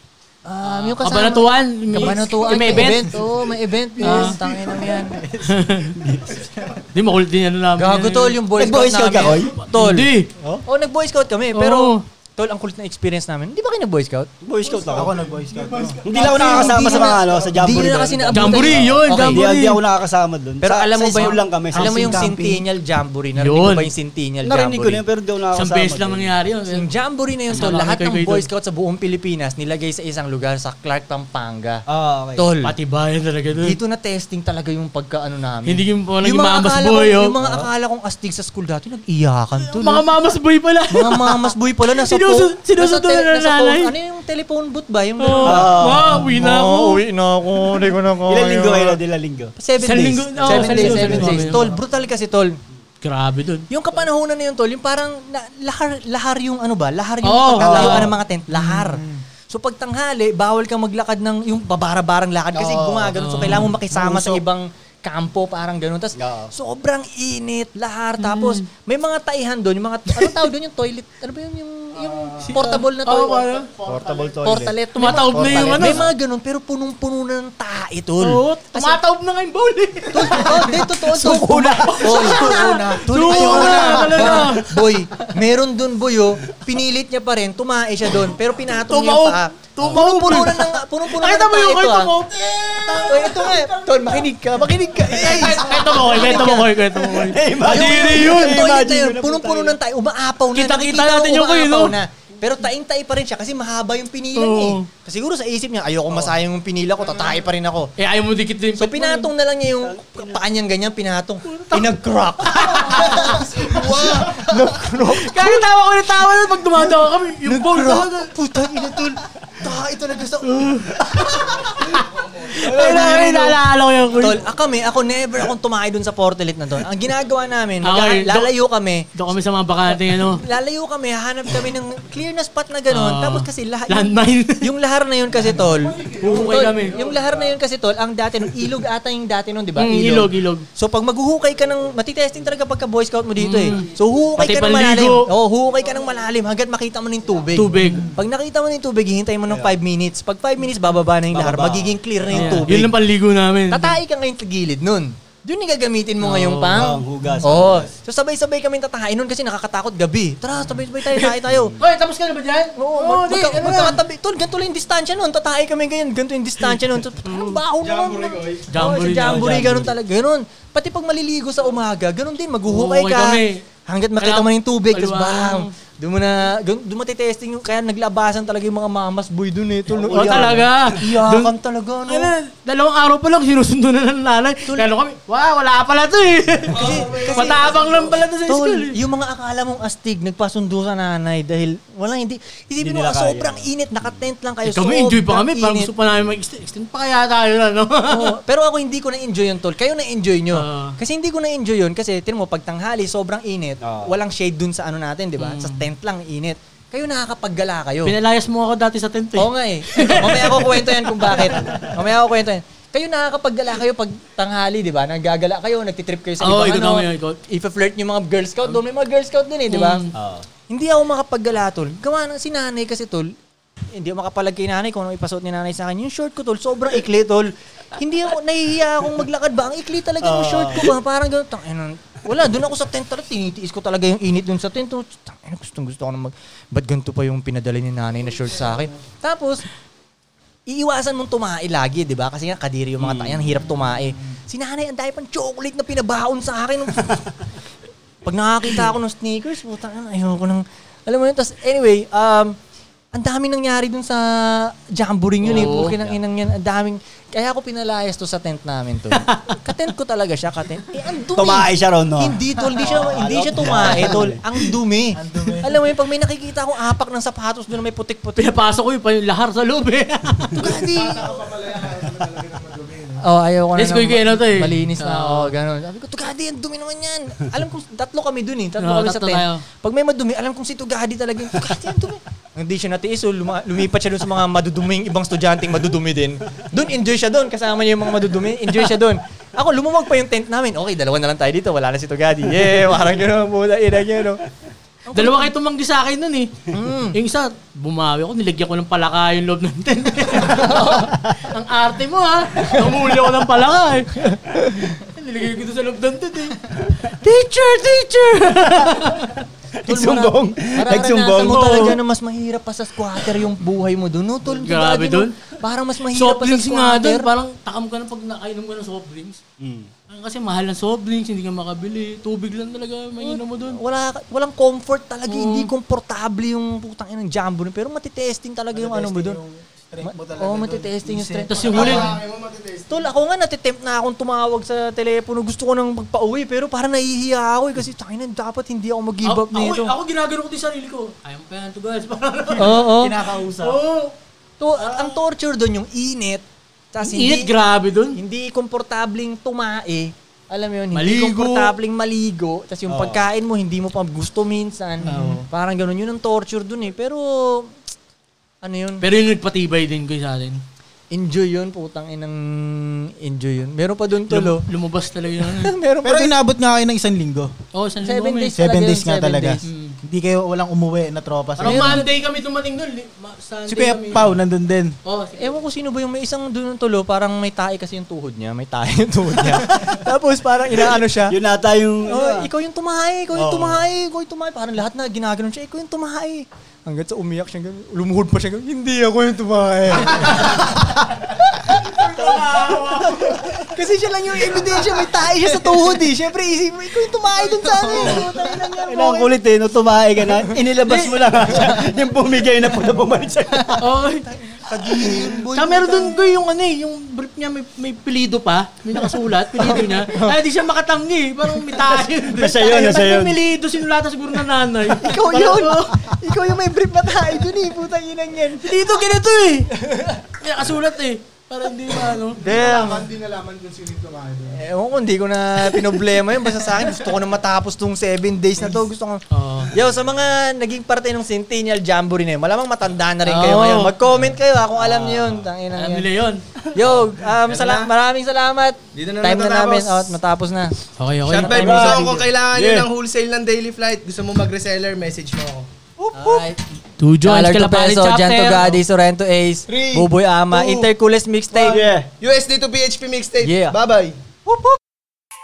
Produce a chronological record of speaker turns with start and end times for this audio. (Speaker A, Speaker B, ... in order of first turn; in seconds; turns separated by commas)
Speaker A: 0.5-5.2, Speaker B: 0.6-3.2, Speaker C: 3.9-4.8, Speaker B: 4.0-4.4, Speaker D: 4.2-5.6, Speaker B: 5.5-6.0, Speaker E: 6.0-6.5, Speaker B: 6.9-8.4, Speaker A: 7.8-10.1, Speaker E: 8.6-9.5, Speaker B: 9.7-10.3, Speaker A: 10.7-14.3, Speaker B: 11.5-12.0, Speaker E: 14.4-22.2, Speaker D: 14.8-16.0, Speaker C: 15.3-16.6, Speaker A: 16.1-19.5, Speaker C: 17.2-17.7, Speaker B: 18.3-19.8, Speaker A: 20.6-25.0, Speaker D: 21.7-22.6, Speaker B: 23.4-23.9, Speaker E: 24.4-26.3, Speaker B: 25.5-26.9, Speaker A: 26.7-31.8, Speaker B: 27.5-28.5, Speaker E: 31.9-32.5, Speaker A: 32.4-32.7, Speaker B: 32.6-33.8, Speaker A: 33.6-40.1, Speaker B: 35.7-37.4, Speaker E: 37.4-37.7, Speaker B: 39.6-43.9, Speaker A: 40.9-49.0, Speaker B: 45.2-47.0, Speaker E: 45.4-46.2, Speaker E: 48.3-49.5, Speaker A: 49.6-52.6, Speaker B: 49.8-51.7, Speaker D: 50.4-51.8, Speaker B: 53.0-53.7, Speaker A: 53.7-73.5, Speaker B: 57.2-58.2, Speaker D: 57.7-58.0, Speaker D: 58.6-59.2, Speaker E: 62.5-64.4, Speaker B: 63.2-63.8, Speaker E: 66.2-66.5, Speaker B: 68.2-68.7, Speaker B: 70.1-70.4, Speaker C: 72.0-72.6, Speaker B: 72.4-73.7, Speaker C: 73.4-74.5, Speaker E: 73.8-76.0, Speaker A: 74.4-79.0, Speaker B: 75.0-76.1, Speaker B: 78.2-84.7, Speaker A: 80.1-92.1, Speaker E: 81.2-81.9, Speaker D: 81.4-84.4, Speaker B: 88.8-93.3, Speaker D: 92.9-94.2, Speaker A: 93.0-96.7, Speaker B: 95.1-98.7, Speaker E: 97.1-99.8, Speaker A: 97.6-107.9, Speaker B: 100.5-102.0, Speaker B: 104.3-104.9, Speaker B: 108.0-109.3, Speaker A: 108.8-115.7, Speaker E: 109.8-110.4, Speaker B: 111.5-114.1, Speaker C: 113.5-114.3, Speaker B: 114.9-118.3, Speaker A: 116.8-121.7, Speaker B: 120.4-124.4, Speaker E: 122.6-123.5, Speaker A: 122.6-123.6, Speaker A: 124.2-129.1, Speaker B: 127.8-128.5, Speaker B: 129.1-130.4, Speaker A: 129.9-152.9, Speaker B: 132.9-134.7, Speaker C: 135.6-137.6, Speaker B: 136.2-137.0, Speaker B: 139.8-140.7, Speaker B: 143.4-145.3, Speaker B: 147.5-148.1, Speaker E: 149.5-149.8, Speaker E: 151.3-152.7, Speaker B: 152.3-154.0, Speaker A: 153.7-161.8, Speaker B: 156.2-157.0, Speaker E: 156.7-157.9, Speaker B: 161.1-164.0, Speaker E: 161.5-161.8, Speaker A: 162.8-182.3, Speaker B: 167.2-167.6, Speaker F: 167.8-168.7, Speaker B: 168.7-169.9, Speaker B: 172.7-173.6, Speaker B: 174.2-175.7, Speaker B: 179.9-181.5, Speaker E: 180.2-180.6, Speaker B: 182.1-189.0, Speaker A: 186.7-187.8, Speaker C: 186.9-188.0, Speaker A: 188.5-195.9, Speaker E: 192.8-193.7, Speaker B: 194.7-198.4, Speaker A: 198.1-208.2, Speaker B: 200.5-201.0, Speaker E: 203.8-204.2, Speaker B: 205.4-205.8, Speaker B: 208.0-211.8, Speaker A: 209.4-220.0, Speaker B: 216.4-217.4, Speaker B: 219.7-220.1, Speaker E: 220.1-220.4, Speaker A: 220.7-223.3, Speaker A: 223.9-239.6, Speaker E: 230.2-230.9, Speaker A: 240.7-247.3, Speaker E: 243.0-243.5, Speaker A: 248.2-252.6, Speaker A: 253.1-268.5, Speaker B: 255.4-256.0, Speaker E: 255.5-256.2, Speaker B: 259.1-259.6, Speaker E: 261.3-264.6, Speaker B: 263.8-264.2, Speaker D: 265.1-265.8, Speaker B: 268.4-270.8, Speaker A: 270.5-271.5, Speaker C: 270.9-273.2, Speaker A: 273.2-294.4, Speaker B: 273.8-275.5, Speaker B: 278.8-279.6, Speaker A: 295.1-295.5, Speaker B: 295.1-296.6, Speaker A: 296.7-297.2, Speaker B: 297.1-304.1, Speaker A: 300.5-301.1, Speaker A: 304.2-304.9, Speaker B: 305.1-306.6, Speaker A: 307.2-308.7, Speaker B: 308.2-309.4, Speaker E: 309.8-312.0, Speaker A: 309.8-317.3, Speaker B: 311.5-312.0, Speaker B: 314.5-315.4, Speaker B: 316.1-319.4, Speaker E: 319.6-319.9, Speaker B: 320.1-323.8, Speaker A: 323.2-329.4, Speaker B: 325.3-325.7, Speaker D: 328.7-331.9, Speaker A: 330.0-332.2, Speaker B: 331.5-332.1, Speaker F: 331.6-333.0, Speaker A: 332.9-339.9, Speaker B: 339.2-343.0, Speaker A: 342.6-343.2, Speaker D: 342.8-343.8, Speaker B: 343.5-344.1, Speaker A: 344.6-347.5, Speaker B: 344.8-345.2, Speaker B: 347.0-348.2, Speaker A: 348.1-357.8, Speaker B: 350.9-351.8, Speaker E: 352.9-353.2, Speaker D: 355.1-355.4, Speaker A: 358.6-359.1, Speaker B: 359.0-360.6, Speaker A: 361.1-364.6, Speaker B: 364.3-365.7, Speaker A: 365.6-366.4, Speaker D: 366.0-367.5, Speaker B: 367.7-368.6, Speaker A: 368.0-369.6, Speaker D: 368.6-372.0, Speaker B: 369.6-370.0, Speaker B: 371.6-374.3, Speaker A: 371.6-372.1, Speaker D: 373.7-374.9, Speaker B: 375.1-375.6, Speaker A: 375.4-381.4, Speaker E: 381.3-382.5, Speaker A: 382.1-399.3, Speaker E: 383.3-383.8, Speaker B: 390.2-390.6, Speaker B: 391.8-393.4, Speaker B: 397.9-398.2, Speaker E: 398.8-403.9, Speaker B: 400.8-401.3, Speaker B: 403.8-404.3, Speaker A: 404.3-406.2, Speaker B: 405.2-416.2, Speaker A: 409.6-410.4, Speaker E: 412.3-413.4, Speaker A: 415.0-419.0, Speaker B: 418.6-419.7, Speaker A: 419.7-420.2, Speaker B: 420.2-422.4, Speaker C: 422.4-424.6, Speaker A: 422.4-423.1, Speaker A: 424.5-436.1, Speaker B: 429.3-429.7, Speaker B: 433.2-434.0, Speaker E: 434.8-435.5, Speaker B: 435.8-436.4, Speaker A: 436.7-440.8, Speaker F: 436.8-437.9, Speaker F: 438.9-440.2, Speaker B: 441.0-441.8, Speaker F: 441.2-445.7, Speaker A: 441.3-442.2, Speaker E: 441.6-442.9, Speaker A: 446.1-446.6, Speaker B: 447.0-448.8, Speaker A: 447.2-451.8, Speaker F: 449.7-450.9, Speaker F: 451.5-454.2, Speaker E: 451.7-452.1, Speaker A: 453.4-453.8, Speaker A: 454.5-454.8